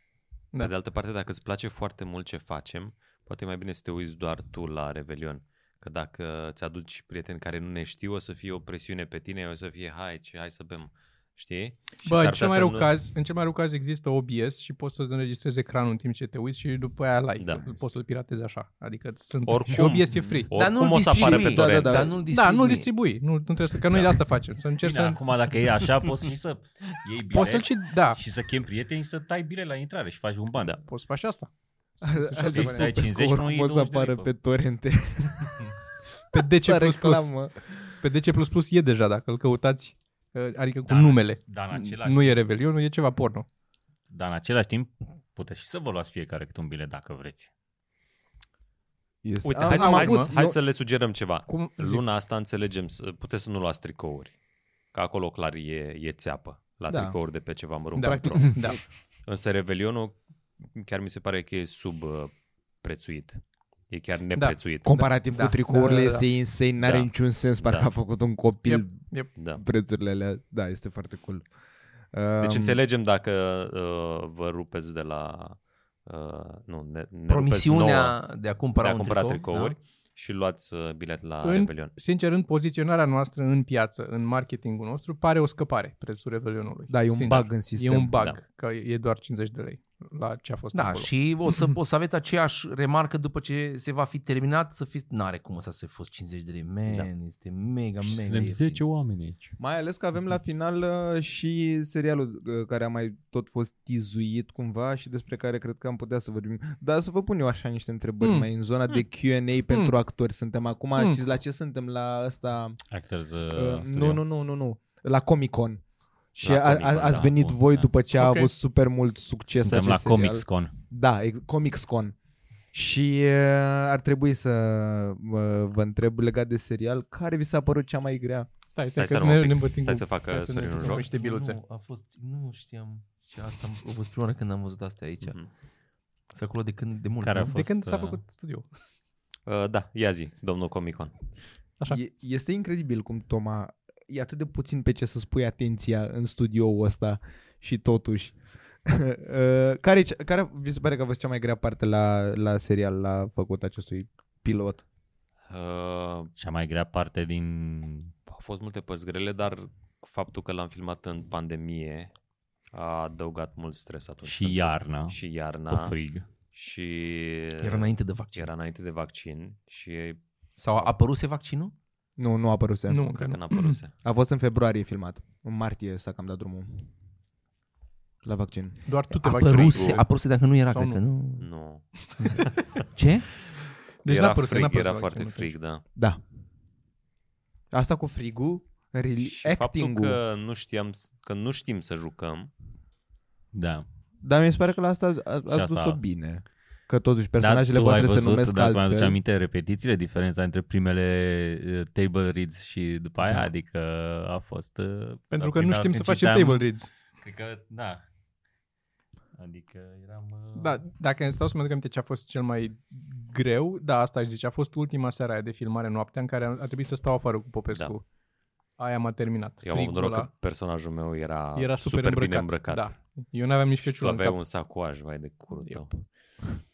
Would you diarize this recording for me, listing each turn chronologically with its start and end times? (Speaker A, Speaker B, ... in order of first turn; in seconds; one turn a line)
Speaker A: 0.6-12.9
Speaker B: 12.0-20.5
Speaker A: 17.4-17.9
Speaker A: 19.5-22.1
Speaker C: 20.5-22.9
Speaker D: 21.1-22.2
Speaker B: 22.3-25.2
Speaker E: 24.8-30.8
Speaker B: 27.3-28.2
Speaker B: 30.9-32.9
Speaker D: 32.0-35.6
Speaker E: 32.5-34.3
Speaker B: 36.3-37.3
Speaker D: 36.3-37.7
Speaker B: 37.9-43.5
Speaker E: 40.8-42.4
Speaker E: 44.1-47.5
Speaker D: 49.2-50.6
Speaker A: 49.5-54.3
Speaker B: 49.7-50.3
Speaker B: 51.5-52.0
Speaker A: 54.9-65.1
Speaker D: 56.9-57.2
Speaker B: 58.0-58.8
Speaker D: 58.4-58.8
Speaker D: 64.8-69.0
Speaker B: 65.7-66.3
Speaker A: 66.8-67.9
Speaker B: 68.7-69.3
Speaker A: 69.3-69.6
Speaker D: 69.5-71.5
Speaker D: 72.1-72.8
Speaker A: 72.4-78.2
Speaker C: 77.3-79.8
Speaker A: 78.8-81.9
Speaker B: 81.4-91.7
Speaker D: 86.9-88.2
Speaker C: 90.7-98.8
Speaker E: 98.0-99.5
Speaker D: 99.6-112.8
Speaker B: 108.2-108.5
Speaker B: 111.0-111.2
Speaker E: 112.9-114.2
Speaker D: 113.5-115.8
Speaker D: 116.3-122.2
Speaker A: 116.4-117.8
Speaker B: 118.2-118.5
Speaker E: 119.5-120.7
Speaker A: 119.7-120.0
Speaker D: 122.7-128.5
Speaker B: 128.7-131.6
Speaker A: 129.0-131.1
Speaker C: 130.8-135.4
Speaker C: 136.3-137.5
Speaker E: 137.2-138.2
Speaker B: 137.4-138.7
Speaker A: 139.5-141.1
Speaker D: 141.9-154.8
Speaker A: 155.5-156.3
Speaker E: 156.3-158.1
Speaker A: 158.3-162.1
Speaker A: 162.7-165.9
Speaker E: 164.2-166.3
Speaker A: 166.5-170.2
Speaker C: 167.6-168.5
Speaker C: 170.6-171.7
Speaker D: 172.2-173.2
Speaker B: 172.9-173.8
Speaker A: 173.2-173.9
Speaker D: 174.0-176.9
Speaker D: 178.2-178.8
Speaker B: 178.8-180.1
Speaker C: 179.2-181.5
Speaker A: 179.4-180.0
Speaker B: 180.7-181.0
Speaker A: 181.4-182.8
Speaker B: 182.1-182.4
Speaker C: 182.9-183.3
Speaker B: 184.0-185.5
Speaker A: 184.1-185.8
Speaker D: 185.9-186.2
Speaker D: 187.7-190.2
Speaker A: 189.2-192.5
Speaker E: 193.5-193.8
Speaker D: 194.2-199.2
Speaker E: 195.5-196.0
Speaker E: 197.4-206.7
Speaker B: 205.3-206.9
Speaker E: 207.2-208.0
Speaker E: 209.3-210.8
Speaker B: 210.5-218.0
Speaker B: 218.8-220.3
Speaker A: 219.6-222.9
Speaker B: 221.5-224.4
Speaker A: 223.8-225.9
Speaker B: 225.6-226.0